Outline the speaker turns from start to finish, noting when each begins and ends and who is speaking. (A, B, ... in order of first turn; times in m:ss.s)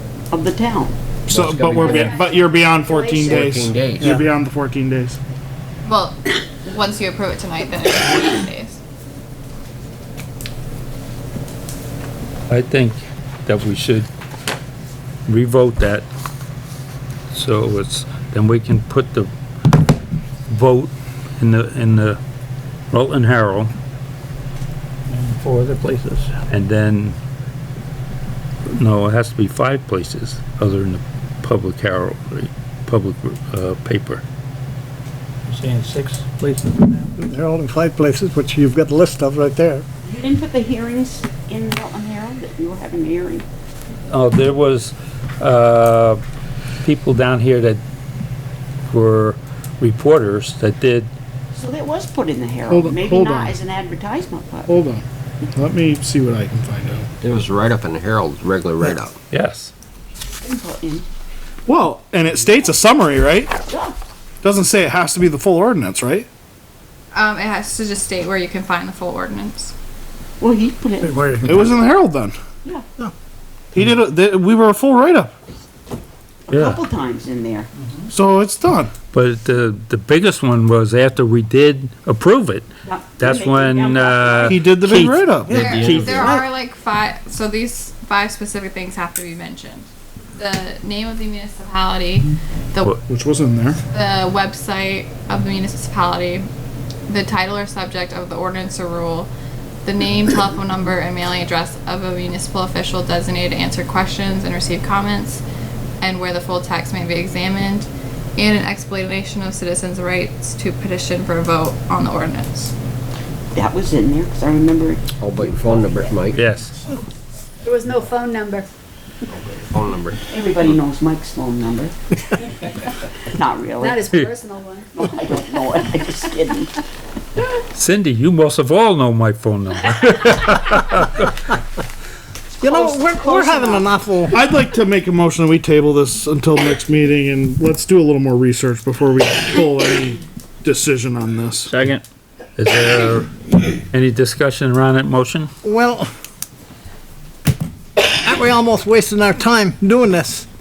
0:00.3-0:01.0 A
0:01.3-0:02.0 B
0:01.3-0:05.2 C
0:02.0-0:03.3 D
0:03.3-0:04.1 B
0:04.0-0:04.2 E
0:05.8-0:08.8 F
0:12.5-0:14.1 G
0:15.3-0:16.1 G
0:17.3-0:19.3 G
0:20.5-0:22.2 G
0:22.9-0:23.7 G
0:25.1-0:26.3 H
0:26.5-0:27.2 G
0:28.7-0:34.2 G
0:35.5-0:37.1 H
0:37.2-0:39.8 E
0:40.0-0:43.4 A
0:44.1-0:46.2 G
0:46.8-0:47.8 G
0:48.9-0:51.1 G
0:51.5-0:54.8 A
0:52.7-0:53.6 C
0:54.7-0:57.1 C
0:57.2-0:59.2 B
0:59.3-0:59.7 G
1:00.4-1:01.0 A
1:01.7-1:03.6 C
1:03.7-1:04.0 A
1:04.4-1:06.3 C
1:07.1-1:09.7 F
1:10.4-1:11.4 A
1:11.0-1:11.5 E
1:11.4-1:12.4 C
1:13.7-1:15.3 C
1:16.5-1:17.7 A
1:16.5-1:16.8 G
1:18.1-1:18.9 C
1:19.1-1:25.1 G
1:22.9-1:24.6 A
1:24.4-1:25.6 C
1:24.8-1:26.2 H
1:25.5-1:26.5 E
1:25.5-1:33.0 F
1:25.5-1:26.0 B
1:33.1-1:33.8 C
1:33.9-1:36.5 F
1:37.1-1:39.3 F
1:39.8-1:45.4 F
1:46.0-1:52.7 F
1:53.5-1:55.0 A
1:55.2-1:56.4 B
1:56.3-1:56.7 G
1:57.8-1:58.7 D
1:59.3-2:00.2 B
2:00.3-2:01.9 A
2:03.3-2:04.1 A
2:03.8-2:04.9 D
2:04.9-2:06.7 A
2:07.6-2:11.3 G
2:12.6-2:14.4 E
2:12.6-2:13.9 A
2:14.3-2:21.7 C
2:21.7-2:22.0 H
2:22.6-2:23.3 G
2:23.9-2:25.5 G
2:25.6-2:26.1 E
2:28.0-2:30.5 E